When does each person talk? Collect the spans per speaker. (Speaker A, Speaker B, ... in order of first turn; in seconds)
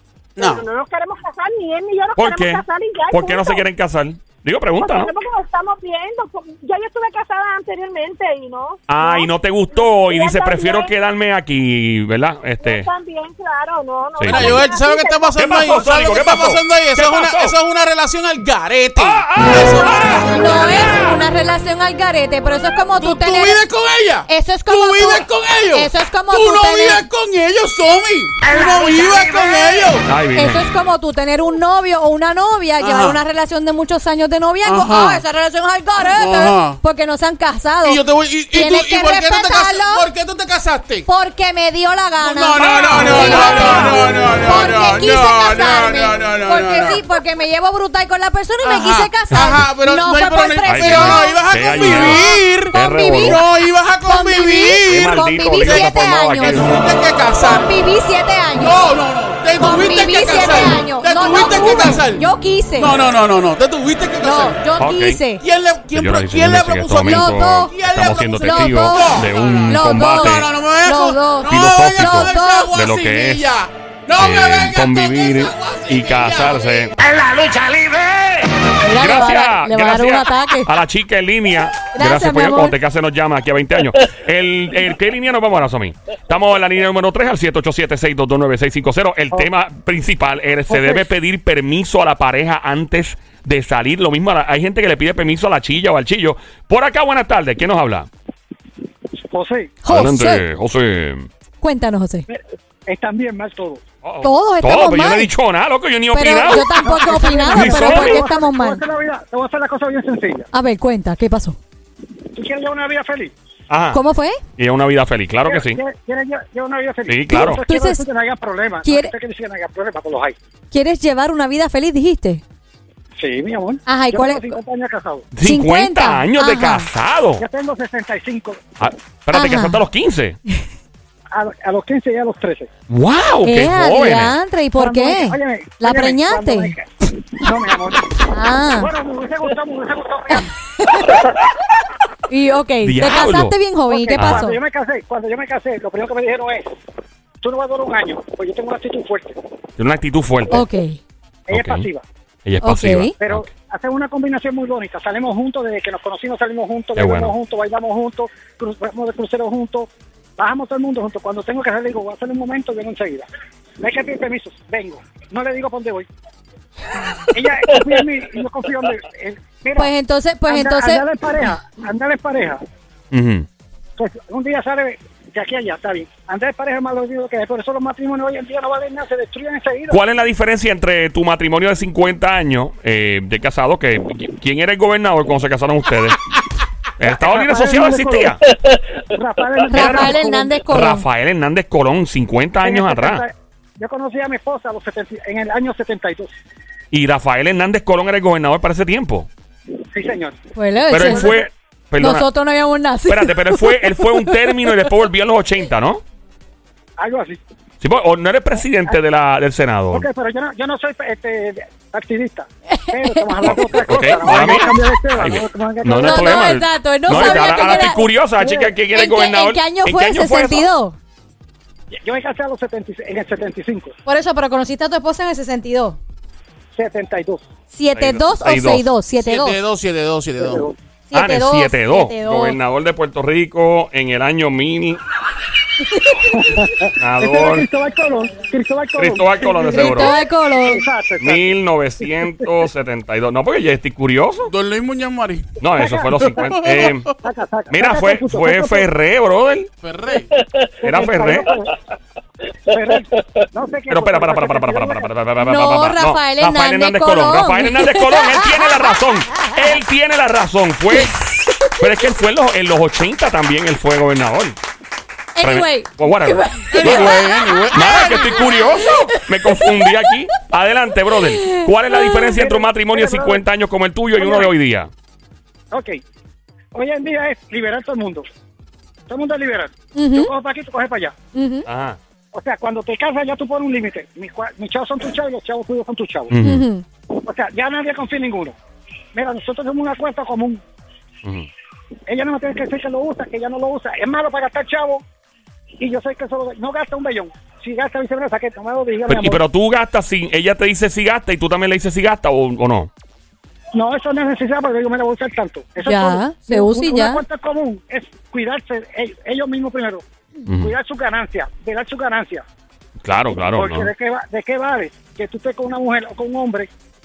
Speaker A: 0.4-0.6, 14.2-21.0, 23.0-30.1, 32.8-33.2, 34.6-35.2, 36.2-36.8, 37.8-41.1, 42.2-47.0, 48.6-57.7, 58.5-64.6, 65.4-76.9, 229.2-230.7, 244.4-245.6, 246.2-247.1, 249.8-250.3, 266.7-268.5
Speaker B: 0.4-3.6, 4.8-10.9, 12.6-15.4
Speaker C: 2.1-5.1, 8.9-12.9, 14.2-14.6, 15.4-17.5, 19.0-21.2, 30.1-30.7, 42.6-43.9, 50.7-53.4, 54.9-56.7, 64.8-65.2, 65.9-70.5, 71.5-73.5, 74.2-76.9, 79.0-98.1, 99.9-101.3, 104.0-106.9, 107.5-108.2, 113.7-114.0, 114.6-115.8, 117.1-117.6, 125.3-127.4, 128.8-130.4, 132.9-134.3, 142.8-143.5, 144.2-144.4, 149.8-150.6, 151.5-151.9, 152.4-153.4, 156.9-157.3, 173.1-173.4, 179.9-186.2, 187.0-188.4, 189.7-190.2, 190.7-193.2, 196.9-199.3, 200.9-202.3, 203.1-206.0, 207.8-210.1, 213.4-220.7, 227.9-228.9, 231.1-235.0, 237.0-237.7, 238.9-240.2, 241.2-244.5, 245.6-247.1, 247.7-249.7, 250.8-251.5, 253.9-264.6, 265.4-267.2, 267.7-274.9, 281.6-282.0, 286.3-286.6, 299.1-302.9, 310.4-310.7, 313.0-313.9
Speaker D: 20.2-23.6, 24.3-27.0, 30.4-38.0, 38.5-40.1, 41.1-53.4, 54.1-56.6, 57.4-58.7, 59.6-62.9, 64.2-65.4, 67.0-67.8, 68.3-72.7, 78.8-80.7, 81.9-82.8, 99.8-100.4, 101.6-102.3, 104.2-105.3, 106.1-108.8, 110.5-111.6, 113.9-114.4, 117.3-118.0, 118.8-119.1, 120.7-122.4, 123.9-124.6, 125.4-126.9, 129.3-129.8, 133.4-136.7, 138.3-138.9, 140.8-141.2, 142.3-144.6, 150.5-151.0, 152.6-153.1, 169.8-171.0, 189.7-191.0, 200.5-201.3, 202.0-204.8, 212.7-213.6, 216.0-221.0, 224.1-226.0, 227.7-229.6, 231.1-232.6, 239.7-240.8, 255.4-259.8, 265.4-267.6, 269.1-269.9, 271.4-272.3, 279.9-280.3, 281.4-281.6, 286.4-286.9, 305.9-307.2
Speaker E: 28.4-29.9, 77.0-78.5
Speaker F: 90.7-91.0, 99.3-99.7, 102.3-103.8, 106.8-110.5, 112.3-113.3, 115.5-120.4, 123.2-125.2, 127.4-128.6, 131.3-132.7, 134.8-138.2, 138.8-141.3, 143.9-146.7, 147.4-149.4, 151.5-152.0, 153.2-163.3, 163.8-166.1, 167.3-169.9, 170.5-172.6, 174.0-180.0, 187.0-188.5, 189.1-190.5, 192.6-196.3, 199.9-200.4, 207.0-207.4, 209.9-216.5, 217.1-217.5, 221.9-223.9, 226.8-227.4, 230.4-230.8, 236.1-242.5, 245.8-248.9, 250.8-251.7, 252.7-255.1, 272.4-273.4, 274.2-274.5, 275.7-276.0, 276.7-278.3, 279.1-281.1, 282.3-286.3, 287.2-288.6, 289.1-290.6, 292.1-295.0, 295.8-299.4, 303.8-310.0, 310.6-312.4, 313.3-316.7